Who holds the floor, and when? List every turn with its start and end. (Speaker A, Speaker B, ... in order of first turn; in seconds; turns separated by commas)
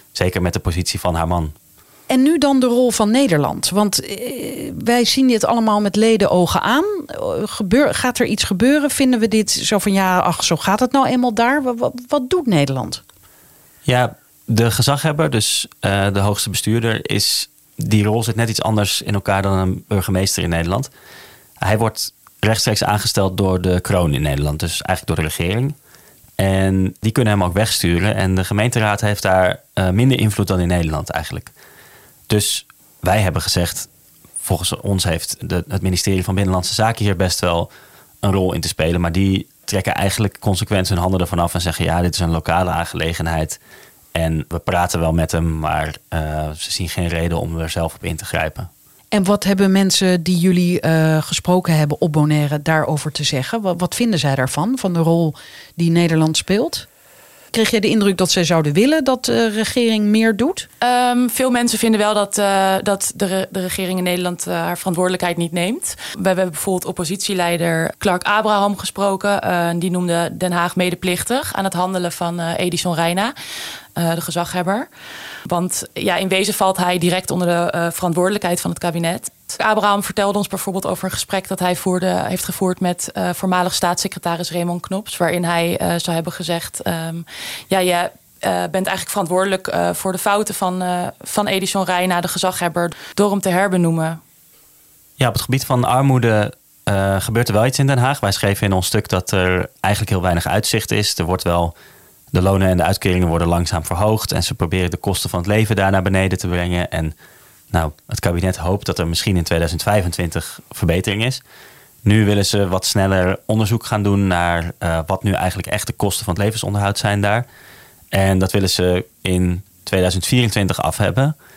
Speaker A: 0.1-1.6, Speaker B: 2.1-13.0, Speaker A: 13.9-20.9, Speaker A: 21.6-25.8, Speaker A: 26.4-31.5, Speaker A: 32.3-33.9, Speaker A: 34.4-37.7, Speaker A: 38.2-43.6, Speaker A: 44.1-48.7, Speaker B: 49.1-56.9, Speaker B: 57.5-60.7, Speaker C: 60.8-73.3, Speaker C: 74.0-74.9, Speaker C: 75.5-94.2, Speaker A: 95.2-101.7, Speaker A: 102.3-107.1, Speaker A: 107.7-111.4, Speaker A: 112.0-117.5, Speaker A: 118.1-121.3